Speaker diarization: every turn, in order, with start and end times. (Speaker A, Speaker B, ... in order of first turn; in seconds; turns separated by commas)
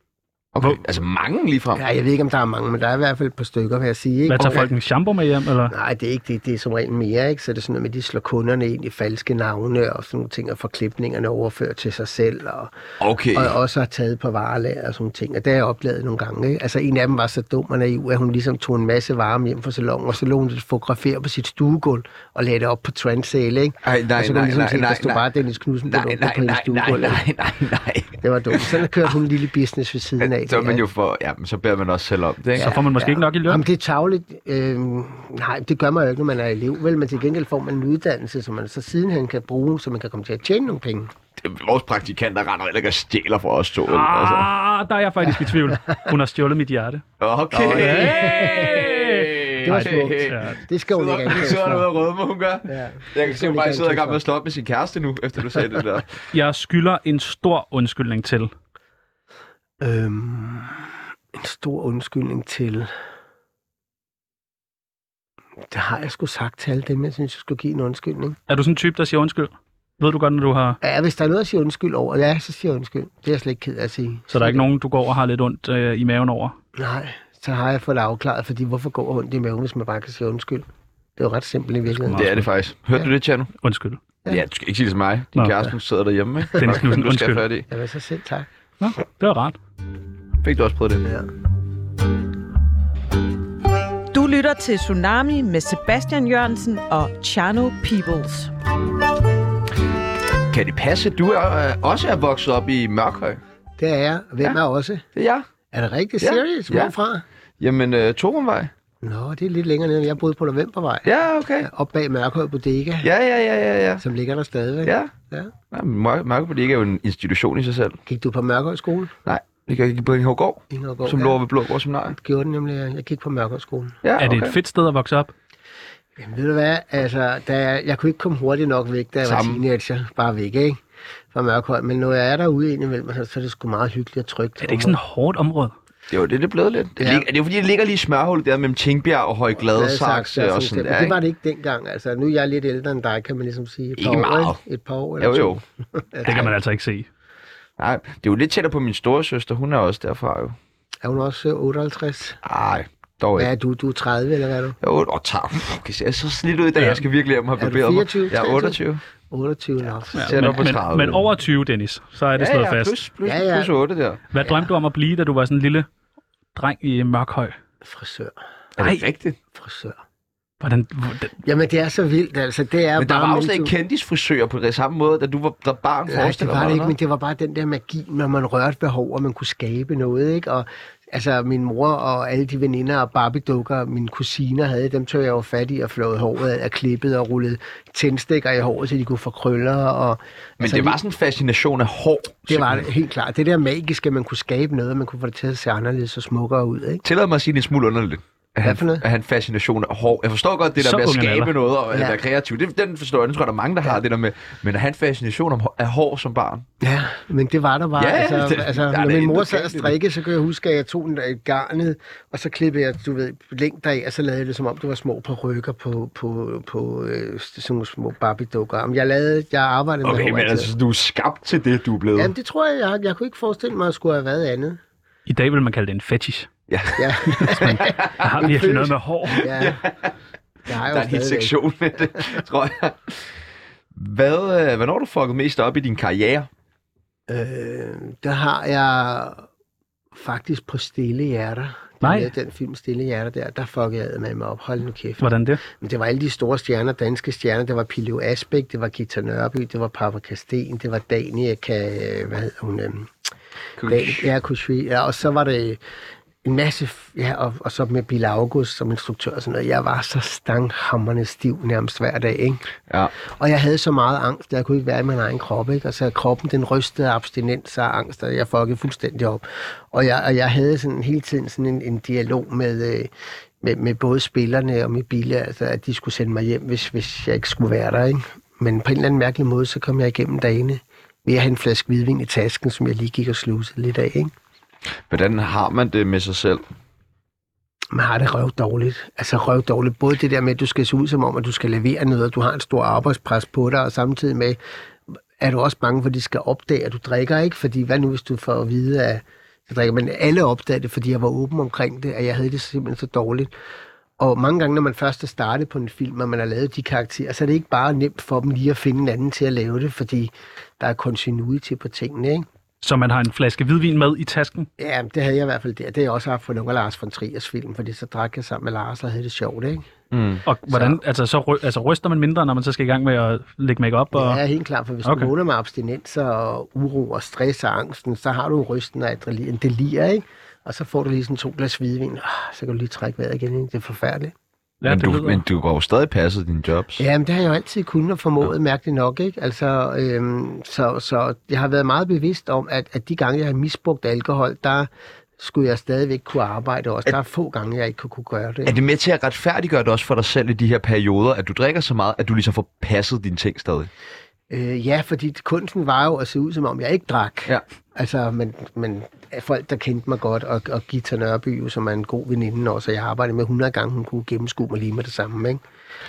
Speaker A: 0.5-1.8, Speaker B: 1.7-4.7, Speaker C: 4.3-5.7, Speaker B: 5.7-12.7, Speaker A: 13.0-13.5, Speaker B: 13.3-27.2, Speaker A: 23.8-25.2, Speaker A: 25.9-28.8, Speaker B: 28.2-30.8, Speaker A: 30.2-32.7, Speaker C: 32.6-33.6, Speaker B: 32.6-41.1, Speaker A: 41.4-44.5, Speaker C: 43.9-47.0, Speaker B: 45.5-46.1, Speaker A: 47.2-56.1, Speaker B: 47.5-49.1, Speaker C: 47.7-50.6, Speaker B: 49.6-51.9, Speaker B: 52.7-54.2, Speaker C: 56.3-58.5, Speaker B: 59.8-62.9, Speaker B: 65.7-68.4, Speaker C: 68.5-70.8, Speaker B: 70.8-74.6, Speaker C: 74.3-76.5, Speaker B: 76.8-82.2, Speaker C: 81.9-82.5, Speaker A: 82.1-83.5, Speaker C: 83.6-84.0, Speaker A: 84.2-87.7, Speaker C: 86.5-87.4, Speaker B: 87.7-88.5, Speaker C: 88.8-89.6, Speaker A: 90.4-91.0, Speaker B: 91.0-91.3, Speaker D: 94.1-98.5, Speaker A: 100.5-103.4, Speaker B: 103.8-105.0, Speaker A: 105.2-105.5, Speaker B: 105.7-107.2, Speaker A: 106.2-106.9, Speaker A: 107.6-108.7, Speaker B: 109.0-113.1, Speaker A: 111.0-111.7, Speaker A: 113.0-114.0, Speaker B: 114.0-115.5, Speaker A: 114.8-115.1, Speaker A: 115.7-118.0, Speaker B: 118.0-119.1, Speaker A: 119.2-122.2, Speaker B: 120.7-121.4, Speaker B: 122.1-124.0, Speaker A: 124.0-124.5, Speaker C: 124.2-125.3, Speaker B: 126.2-130.8, Speaker A: 129.2-129.6, Speaker B: 131.3-135.0, Speaker C: 134.6-135.7, Speaker A: 136.1-141.2, Speaker B: 137.0-137.3, Speaker B: 139.7-146.5, Speaker A: 144.0-144.6, Speaker A: 145.2-145.6, Speaker C: 146.2-147.1, Speaker A: 147.8-150.6, Speaker B: 151.0-152.4, Speaker A: 152.4-153.5, Speaker B: 153.3-154.8, Speaker A: 154.8-159.0, Speaker B: 157.6-160.5, Speaker A: 160.1-161.2, Speaker C: 160.1-163.0, Speaker A: 162.3-164.2, Speaker B: 163.2-163.7, Speaker C: 164.3-165.9, Speaker C: 166.5-167.5, Speaker B: 167.8-168.4, Speaker A: 168.8-169.4, Speaker C: 168.8-169.0, Speaker B: 169.5-170.0, Speaker C: 170.6-171.3, Speaker B: 171.4-173.7, Speaker A: 173.0-176.9, Speaker B: 176.1-191.0, Speaker A: 190.6-192.8, Speaker B: 192.5-197.0, Speaker A: 197.0-206.7, Speaker B: 198.6-199.0, Speaker C: 200.8-201.5, Speaker B: 201.9-202.2, Speaker B: 206.8-220.7, Speaker A: 208.0-209.9, Speaker A: 220.0-222.3, Speaker B: 222.1-224.8, Speaker C: 225.3-226.5, Speaker A: 226.7-228.3, Speaker B: 227.0-229.8, Speaker C: 227.4-229.5, Speaker A: 229.4-230.1, Speaker B: 230.7-231.6, Speaker A: 230.7-233.3, Speaker A: 233.9-236.5, Speaker B: 237.3-239.5, Speaker B: 240.1-253.1, Speaker C: 242.0-242.3, Speaker C: 245.2-245.6, Speaker A: 253.8-254.2, Speaker B: 253.8-255.8, Speaker B: 256.4-262.7, Speaker B: 263.2-284.3, Speaker A: 285.1-286.6, Speaker B: 287.9-294.6, Speaker B: 295.1-303.5, Speaker B: 304.2-312.4, Speaker C: 312.8-314.7, Speaker B: 314.8-319.9, Speaker A: 320.1-320.4, Speaker C: 320.4-324.4, Speaker B: 320.7-321.0, Speaker B: 324.1-334.3, Speaker C: 325.0-325.3, Speaker C: 334.8-335.4, Speaker A: 334.9-337.0, Speaker B: 337.0-348.8, Speaker A: 348.6-353.9, Speaker B: 354.5-365.6